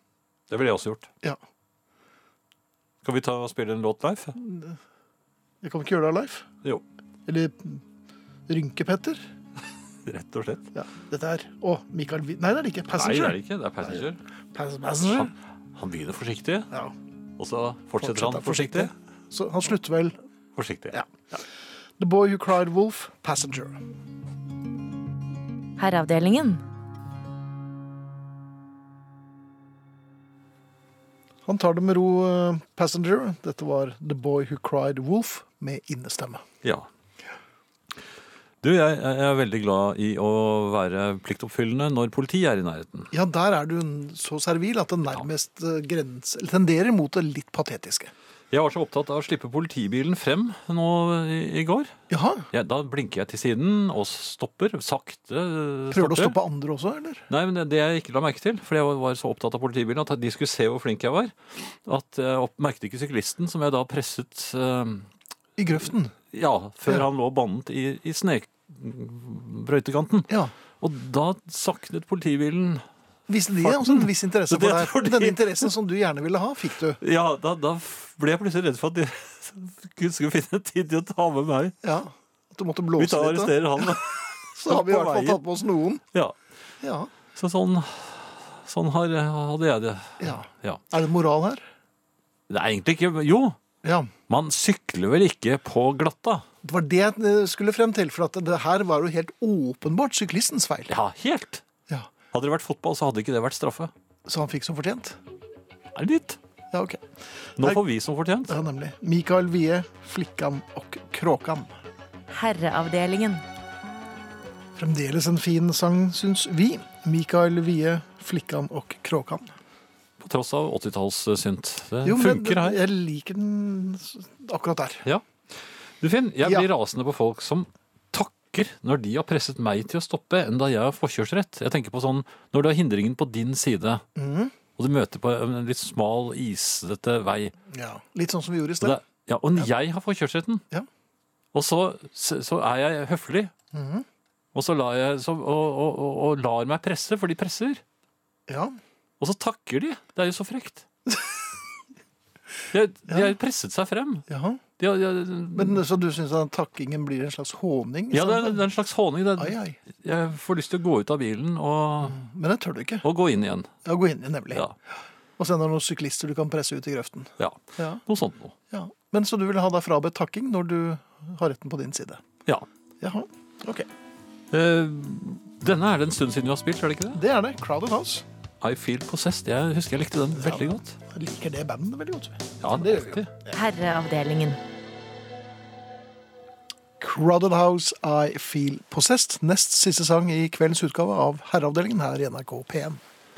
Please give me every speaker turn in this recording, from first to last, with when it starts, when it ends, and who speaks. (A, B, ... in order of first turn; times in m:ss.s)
0:00.5-0:01.1 A
0:03.0-0:04.4 A
0:04.3-0:04.8 B
0:05.6-0:06.5 B
0:07.2-0:07.8 B
0:08.5-0:09.2 B
0:10.0-0:10.7 A
0:10.7-0:14.0 B
0:12.9-0:14.2 A
0:14.5-0:15.3 B
0:15.0-0:16.7 A
0:17.4-0:18.9 A
0:18.0-0:20.2 B
0:20.6-0:21.4 A
0:22.0-0:23.8 B
0:25.8-0:26.6 C
0:31.4-0:36.4 B
0:36.6-0:36.9 A
0:38.6-0:43.1 A
0:43.1-0:48.1 B
0:48.5-0:52.0 A
0:52.1-0:52.5 B
0:52.5-0:56.4 A
0:55.9-0:57.2 B
0:57.3-1:05.1 A
1:05.6-1:06.2 B
1:06.3-1:12.8 A
1:10.3-1:10.5 B
1:13.3-1:17.0 B
1:13.6-1:15.7 A
1:17.0-1:21.8 A
1:21.8-1:23.9 B
1:23.0-1:25.4 A
1:24.5-1:26.0 B
1:26.8-1:27.1 B
1:27.4-1:30.8 A
1:30.2-1:31.6 B
1:32.5-1:33.6 A
1:33.8-1:34.1 B
1:34.3-1:36.4 A
1:36.6-1:40.9 B
1:40.9-1:41.6 A
1:42.3-1:43.9 A
1:44.3-1:45.2 B
1:45.9-1:46.4 A
1:46.7-1:47.0 B
1:47.6-1:48.6 A
1:48.5-1:51.7 B
1:52.3-1:53.4 C
1:54.8-1:59.5 B
2:00.2-2:02.8 A
2:02.0-2:05.0 B
2:06.0-2:14.0 A
2:14.2-2:14.5 B
2:14.8-2:17.5 A
2:17.7-2:19.0 B
2:18.8-2:20.6 A
2:21.5-2:23.5 A
2:23.7-2:24.0 B
2:24.5-2:27.8 A
2:28.5-2:28.8 B
2:29.2-2:30.8 A
2:31.1-2:31.4 B
2:32.7-2:34.2 A
2:34.3-2:34.6 B
2:34.8-2:35.8 A
2:35.5-2:38.6 B
2:38.1-2:42.2 A
2:39.4-2:39.8 B
2:42.0-2:43.0 B
2:43.0-2:43.7 A
2:43.8-2:44.6 B
2:45.4-2:48.0 B
2:47.4-2:48.5 A
2:48.7-2:52.2 B
2:53.0-2:53.9 B
2:54.5-2:57.2 A
2:57.1-2:58.2 B
2:58.6-3:01.0 A
3:00.4-3:03.6 B
3:02.6-3:03.3 A
3:03.5-3:04.6 C
3:07.0-3:13.0 B